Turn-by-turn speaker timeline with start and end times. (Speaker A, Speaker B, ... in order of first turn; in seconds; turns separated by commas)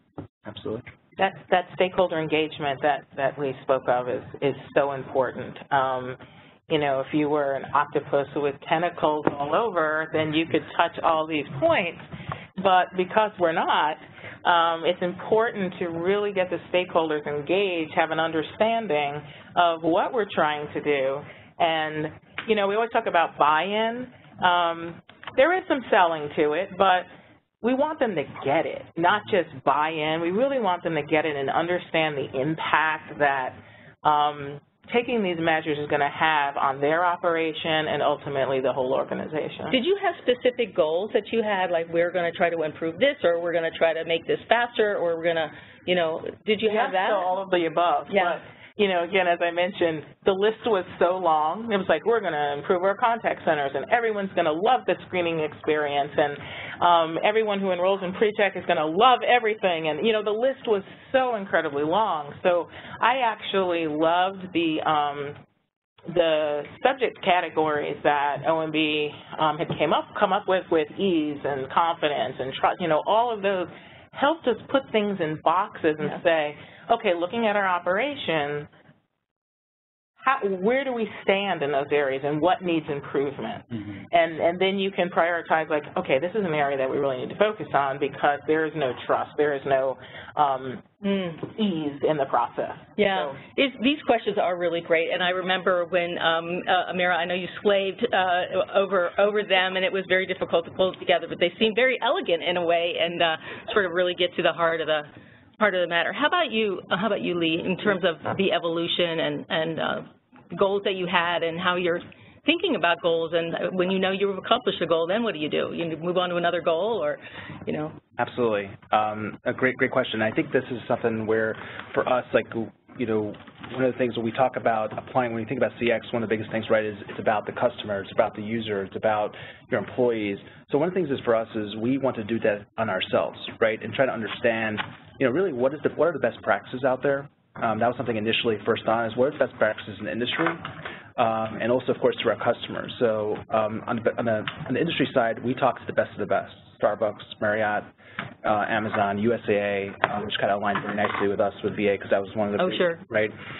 Speaker A: 0.5-0.9, Speaker B: 1.2-6.2, Speaker B: 6.7-12.0, Speaker B: 12.6-27.1, Speaker B: 27.6-39.8, Speaker C: 39.7-47.3, Speaker B: 46.6-65.4, Speaker C: 48.1-48.4, Speaker B: 66.1-78.7, Speaker B: 80.2-93.4, Speaker C: 91.0-91.4, Speaker C: 93.0-118.0, Speaker A: 118.2-147.9, Speaker A: 148.4-153.3, Speaker C: 152.6-153.0